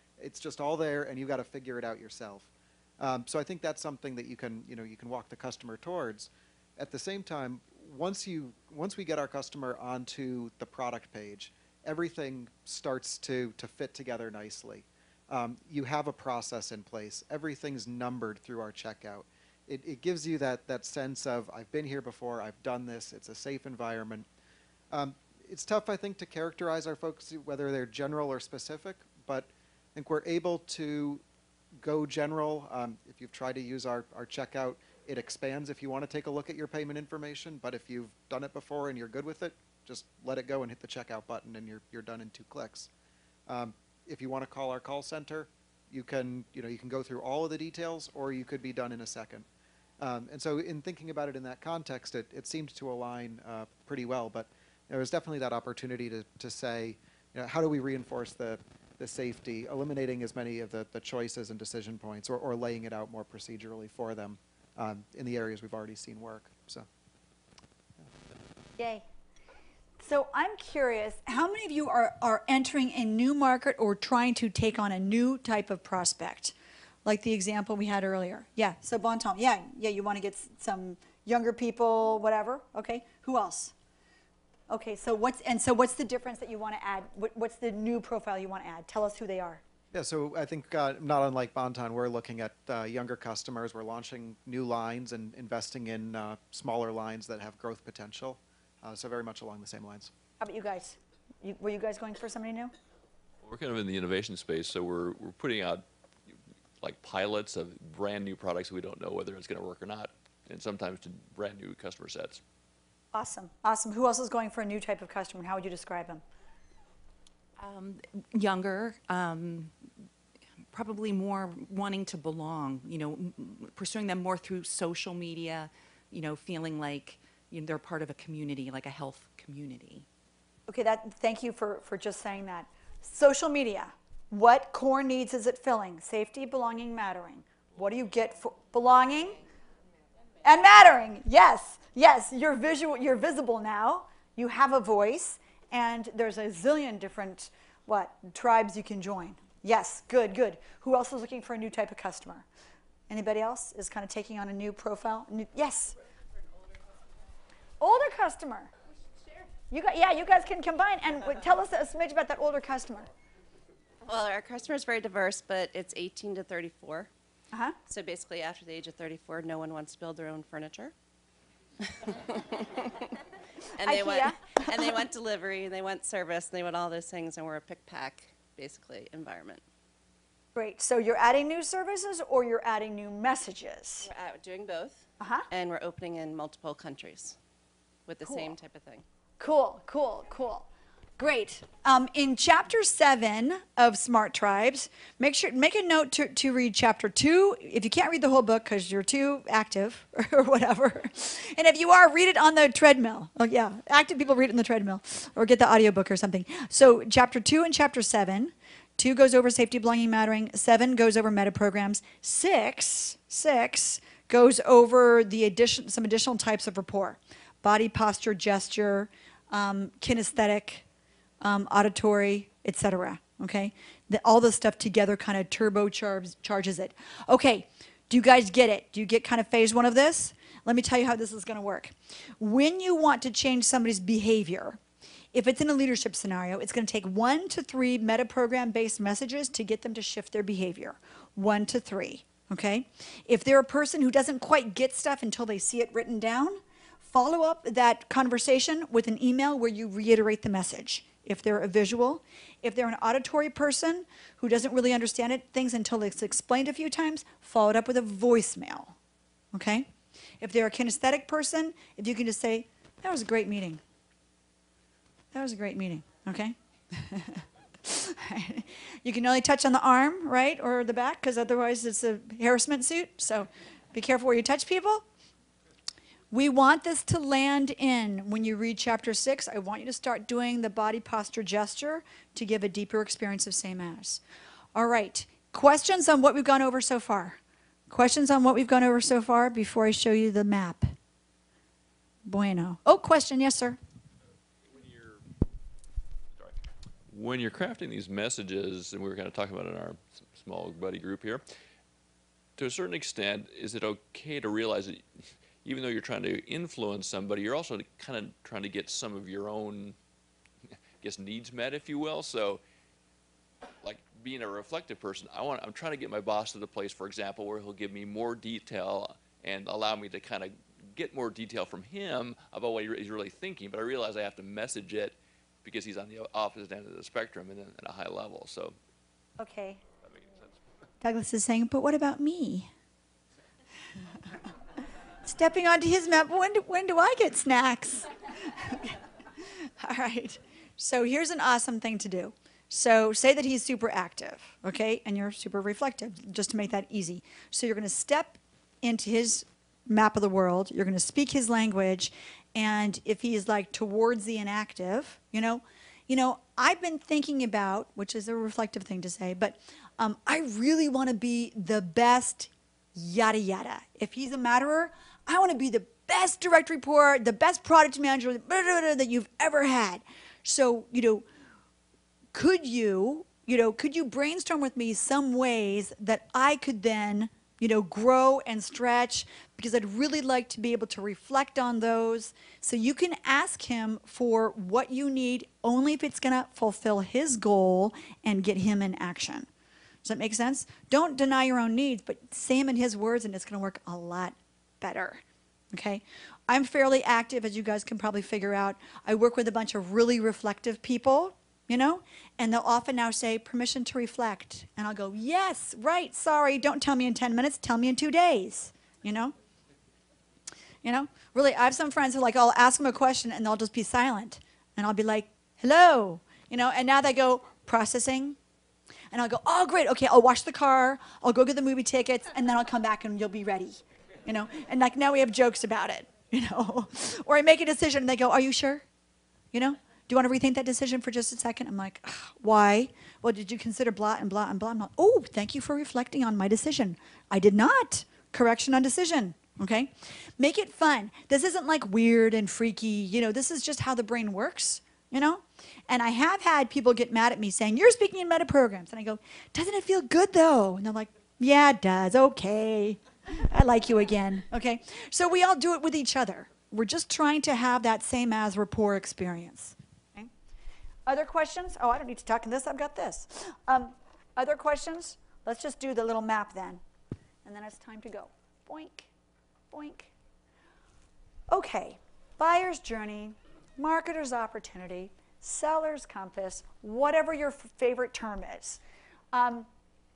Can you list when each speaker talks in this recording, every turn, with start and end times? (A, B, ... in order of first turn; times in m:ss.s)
0:00.2-0:24.2 A
0:24.9-0:31.2 A
0:31.8-0:42.9 A
0:43.5-0:49.4 A
0:50.0-1:06.9 A
1:08.8-1:09.0 B
1:10.0-1:23.7 B
1:24.7-1:29.6 B
1:29.9-1:40.1 A
1:40.4-1:42.7 B
1:43.4-1:45.8 C
1:46.8-1:52.4 C
1:53.1-1:56.2 B
1:57.6-1:59.8 D
2:00.7-2:10.0 D
2:10.7-2:19.4 B
2:20.4-2:32.4 B
2:33.1-2:36.0 B
2:37.8-2:38.7 B
2:39.7-2:43.1 B
2:44.0-2:47.1 E
2:47.5-2:47.8 B
2:47.9-2:50.9 E
2:51.9-2:53.0 E
2:53.7-2:59.6 E
2:53.8-2:54.9 B
3:00.5-3:04.1 B
3:04.0-3:07.4 E
3:05.2-3:05.5 B
3:08.0-3:09.0 E
3:09.4-3:10.6 B
3:11.2-3:40.8 B
3:41.4-3:54.8 B
3:55.3-4:19.0 B
4:19.5-4:23.8 B
4:25.3-4:35.0 B
4:36.3-4:44.2 B
4:44.7-4:50.9 B
4:52.2-4:53.8 B
4:54.7-4:55.2 C
4:57.1-5:01.4 C
5:02.6-5:05.0 C
5:05.6-5:10.0 C
5:11.0-5:12.6 C
5:13.8-5:28.8 C
5:29.4-5:29.8 B
5:30.0-5:30.6 C
5:31.0-5:32.7 B
5:35.2-5:39.0 B
5:39.6-6:11.3 B
6:12.3-6:29.5 B
6:30.0-6:49.3 B
6:50.8-6:58.4 B
6:59.1-7:08.8 B
7:09.5-7:40.3 B
7:41.0-7:46.8 B
7:47.4-7:49.1 B
7:49.7-7:50.1 B
7:51.5-7:58.8 B
7:59.3-7:59.7 B